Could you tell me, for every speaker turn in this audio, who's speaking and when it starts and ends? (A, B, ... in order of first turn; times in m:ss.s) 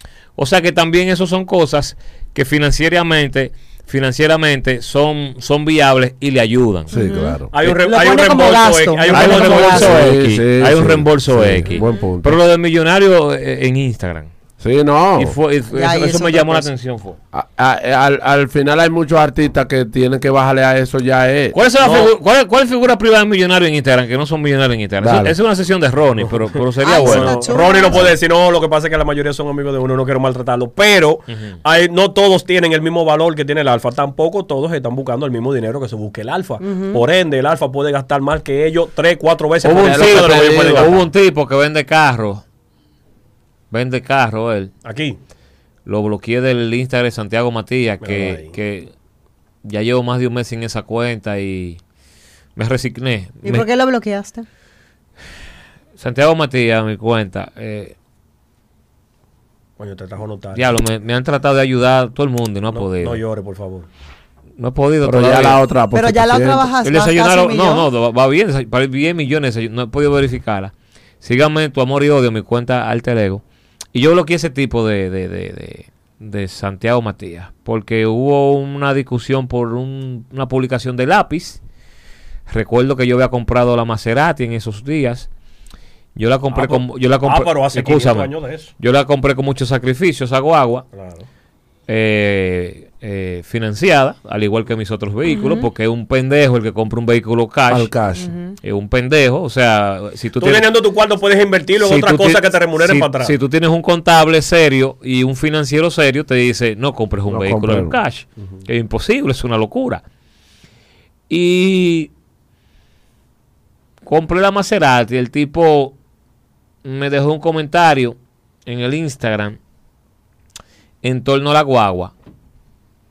0:00.4-0:07.0 A
0:06.9-0:07.5 B
0:06.9-0:10.1 C
0:07.5-0:09.9 D
0:09.1-0:14.3 A
0:09.7-0:12.4 B
0:11.7-0:12.0 C
0:14.6-0:15.4 B
0:15.2-0:17.2 A
0:15.7-0:16.7 C
0:17.3-0:21.6 B
0:21.5-0:27.4 A
0:21.8-0:22.1 D
0:25.0-0:25.4 B
0:26.2-0:41.0 D
0:26.8-0:28.1 C
0:31.3-0:31.6 A
0:36.6-0:37.0 C
0:39.6-0:42.4 A
0:39.7-0:41.0 B
0:43.7-0:44.7 A
0:44.8-0:45.2 D
0:45.8-0:48.9 A
0:48.0-0:48.5 D
0:49.6-0:51.8 A
0:52.6-0:53.7 A
0:53.4-0:54.4 C
0:56.0-0:57.9 A
0:59.8-1:00.8 D
1:00.5-1:03.2 A
1:02.7-1:03.9 D
1:04.6-1:05.6 A
1:05.0-1:06.7 B
1:05.9-1:07.9 C
1:06.8-1:13.4 A
1:13.9-1:21.6 A
1:22.5-1:25.3 A
1:26.2-1:30.8 A
1:26.5-1:28.7 D
1:30.9-1:31.3 D
1:31.9-1:37.9 A
1:35.2-1:35.7 C
1:37.7-1:38.3 B
1:38.2-1:38.6 C
1:38.6-1:40.7 A
1:40.4-1:43.3 D
1:41.8-1:50.0 A
1:47.3-1:48.0 B
1:51.3-1:52.1 A
1:54.0-1:55.9 A
1:56.8-1:59.6 A
2:01.0-2:02.1 A